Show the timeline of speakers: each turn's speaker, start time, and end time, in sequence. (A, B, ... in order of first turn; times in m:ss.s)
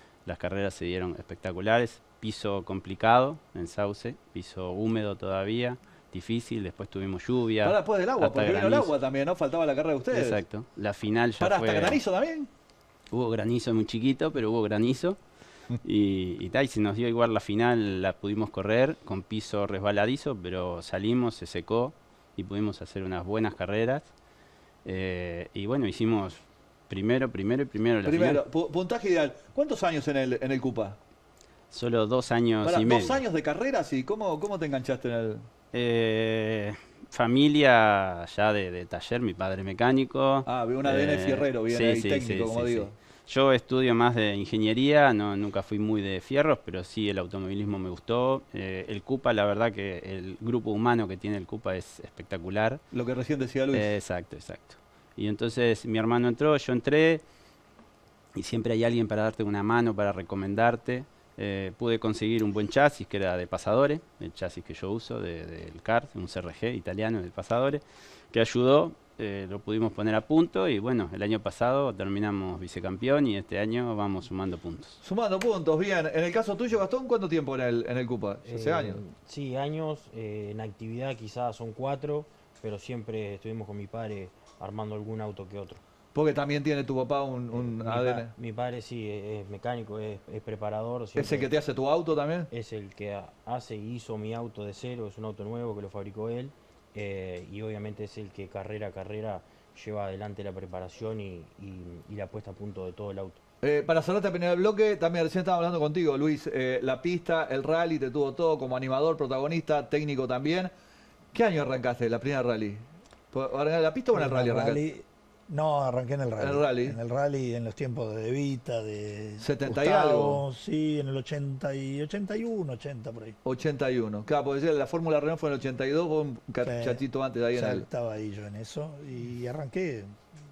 0:00.2-0:08.9 A
0:07.6-0:10.4 B
0:10.1-0:12.0 A
0:11.4-0:12.5 B
0:13.1-0:15.2 A
0:15.8-0:24.1 A
0:24.8-0:28.4 A
0:28.0-0:31.0 B
0:31.7-0:33.2 A
0:32.6-0:35.4 B
0:35.7-0:52.8 A
0:40.4-0:42.9 B
0:52.9-0:53.9 B
0:53.7-0:57.2 A
0:58.4-1:15.0 A
1:15.0-1:19.0 B
1:18.4-1:25.8 C
1:26.1-1:28.3 B
1:27.5-1:31.5 C
1:31.2-1:32.5 B
1:32.5-1:43.4 C
1:43.6-1:50.7 B
1:51.3-1:54.8 B
1:54.1-2:03.4 D
1:56.4-1:57.0 B
1:59.4-2:00.4 B
2:03.4-2:07.8 B
2:06.6-2:10.1 D